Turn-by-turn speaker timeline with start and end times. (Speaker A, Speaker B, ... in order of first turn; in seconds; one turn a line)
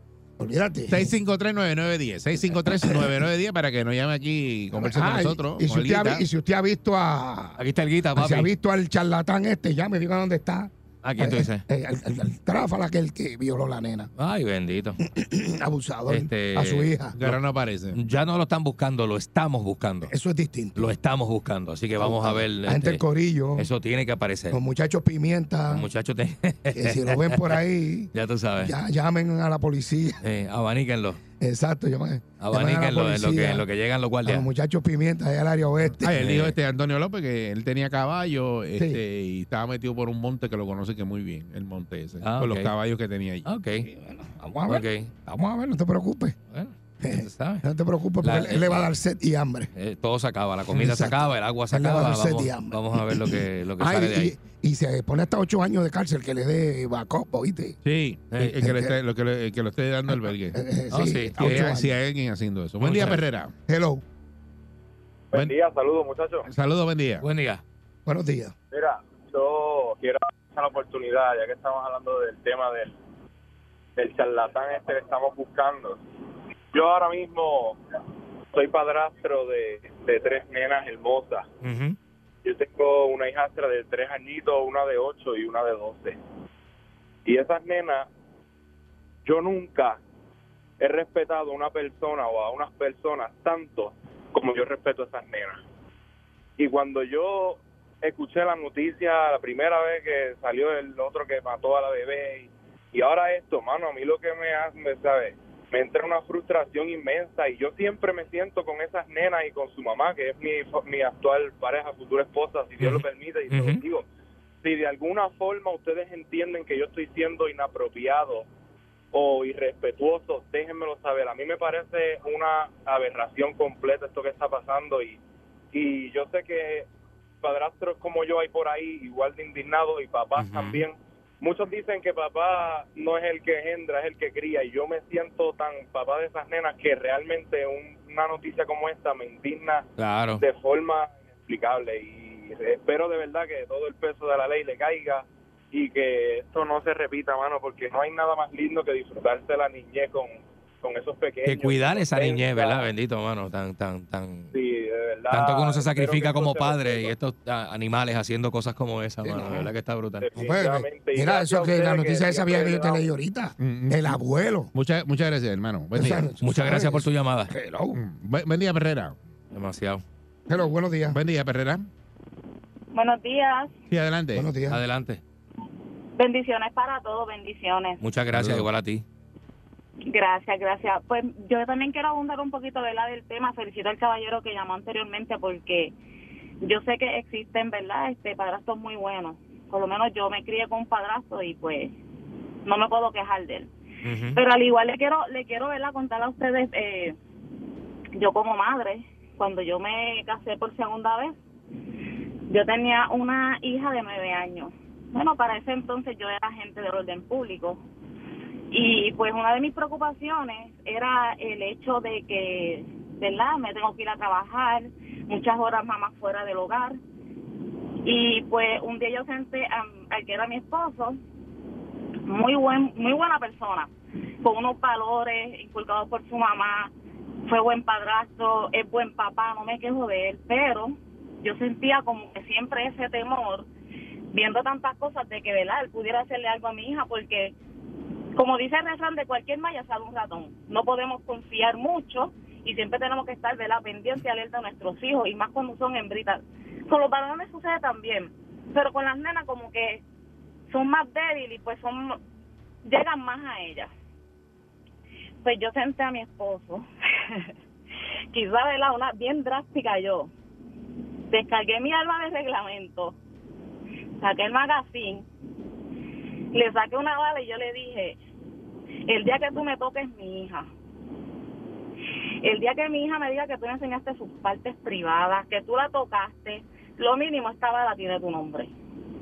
Speaker A: 0.4-1.1
Speaker B: 0.9-6.2
Speaker A: 2.4-3.2
Speaker A: 4.7-7.6
Speaker C: 7.6-8.5
Speaker A: 8.1-14.1
Speaker C: 11.0-11.6
Speaker C: 14.2-15.0
Speaker A: 15.0-17.1
Speaker C: 16.1-17.4
Speaker B: 17.1-18.0
Speaker C: 17.9-20.1
Speaker A: 20.1-20.9
Speaker C: 20.7-24.6
Speaker A: 22.0-23.7
Speaker A: 24.5-25.9
Speaker C: 25.7-27.6
Speaker A: 26.7-30.2
Speaker C: 28.1-28.7
Speaker C: 30.2-31.2
Speaker A: 31.4-33.7
Speaker C: 32.4-34.5
Speaker A: 34.2-36.0
Speaker B: 36.0-43.5
Speaker C: 36.1-36.5
Speaker A: 38.8-39.0
Speaker C: 42.2-42.7
Speaker C: 43.4-43.9
Speaker A: 43.8-46.4
Speaker C: 44.7-45.1
Speaker C: 46.5-47.6
Speaker A: 47.0-49.7
Speaker C: 48.2-48.9
Speaker C: 49.7-54.3
Speaker A: 50.8-57.8
Speaker B: 57.8-60.6
Speaker C: 58.3-58.6
Speaker A: 58.6-59.0
Speaker A: 60.1-62.0
Speaker C: 60.9-61.8
Speaker B: 61.4-63.5
Speaker C: 62.8-63.2
Speaker A: 63.7-64.0
Speaker D: 65.3-66.5
Speaker B: 66.5-67.2
Speaker C: 67.2-67.6
Speaker A: 68.0-68.5
Speaker D: 68.7-72.9
Speaker D: 74.0-76.0
Speaker D: 76.7-77.8
Speaker D: 78.5-81.4
Speaker C: 81.6-82.0
Speaker D: 82.4-86.2
Speaker D: 87.2-88.1
Speaker D: 89.2-90.0
Speaker D: 90.8-95.6
Speaker D: 96.6-114.0
Speaker C: 112.8-113.8
Speaker D: 114.6-118.5
Speaker D: 119.1-125.2
Speaker D: 125.7-126.9
Speaker D: 127.4-139.8
Speaker C: 130.4-130.8
Speaker C: 140.0-140.4
Speaker D: 140.3-152.9
Speaker C: 151.4-154.5
Speaker D: 154.5-157.1
Speaker C: 155.3-160.3
Speaker A: 159.2-159.7
Speaker D: 160.2-163.1
Speaker A: 160.3-164.7
Speaker B: 163.6-164.2
Speaker B: 164.7-166.3
Speaker A: 165.9-168.0
Speaker C: 166.4-167.5
Speaker B: 167.9-169.1
Speaker C: 169.5-170.0
Speaker A: 170.5-171.2
Speaker B: 171.1-171.9
Speaker E: 172.9-173.7
Speaker B: 173.9-174.5
Speaker A: 174.3-174.8
Speaker C: 174.7-175.2
Speaker E: 176.2-178.0
Speaker C: 178.0-179.0
Speaker B: 178.3-178.7
Speaker E: 180.0-185.9
Speaker E: 186.6-191.9
Speaker E: 192.6-193.7
Speaker C: 194.0-194.4
Speaker E: 194.3-197.2
Speaker E: 198.1-201.3
Speaker E: 202.5-207.8
Speaker E: 208.7-217.0
Speaker E: 218.0-221.2
Speaker E: 222.2-223.9
Speaker E: 224.4-226.9
Speaker E: 227.5-233.7
Speaker E: 234.3-237.5
Speaker E: 238.3-250.0
Speaker E: 250.7-252.2
Speaker E: 252.8-253.9
Speaker E: 255.4-257.5
Speaker E: 258.3-260.3
Speaker E: 261.3-263.2
Speaker E: 264.2-265.3
Speaker E: 266.5-268.2
Speaker E: 269.1-270.7
Speaker E: 272.4-278.7